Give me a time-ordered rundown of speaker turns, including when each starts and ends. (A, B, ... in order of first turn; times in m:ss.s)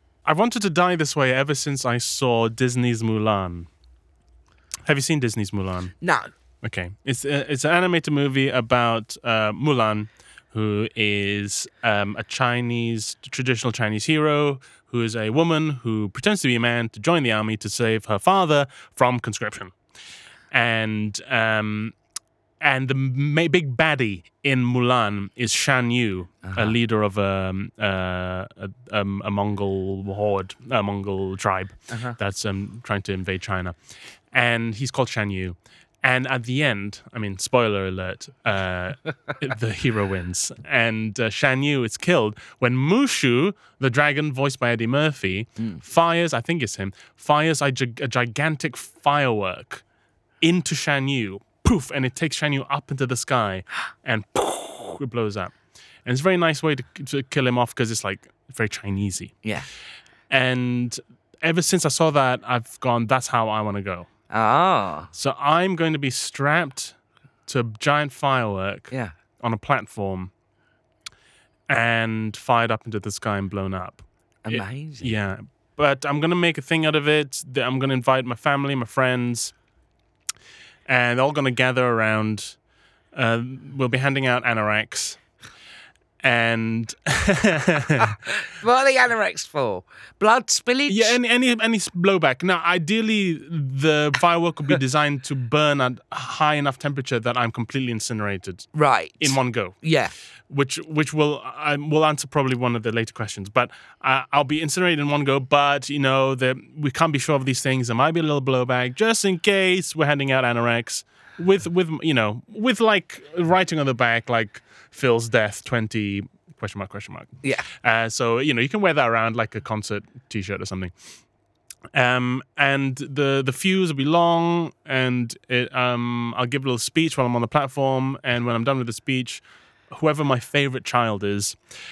0:00.2-0:03.7 A
0:04.8-0:05.9 A
0:06.0-0:06.3 B
0:06.6-0:19.7 A
0:20.5-0:21.9 A
0:22.6-0:33.7 A
0:26.4-0:26.8 B
0:31.9-0:32.2 B
0:34.3-0:49.8 A
0:50.4-0:55.5 A
0:56.0-0:59.3 A
1:00.3-1:04.1 A
1:04.3-1:05.1 B
1:05.1-1:06.9 A
1:07.5-1:10.3 A
1:11.7-1:19.5 A
1:14.4-1:15.1 B
1:20.9-1:22.5 A
1:23.1-1:25.2 A
1:26.2-1:28.2 A
1:28.4-1:31.2 B
1:30.9-1:38.7 A
1:38.7-1:40.1 B
1:39.2-1:39.8 A
1:40.5-1:57.3 A
1:57.8-2:00.9 A
2:01.9-2:11.6 A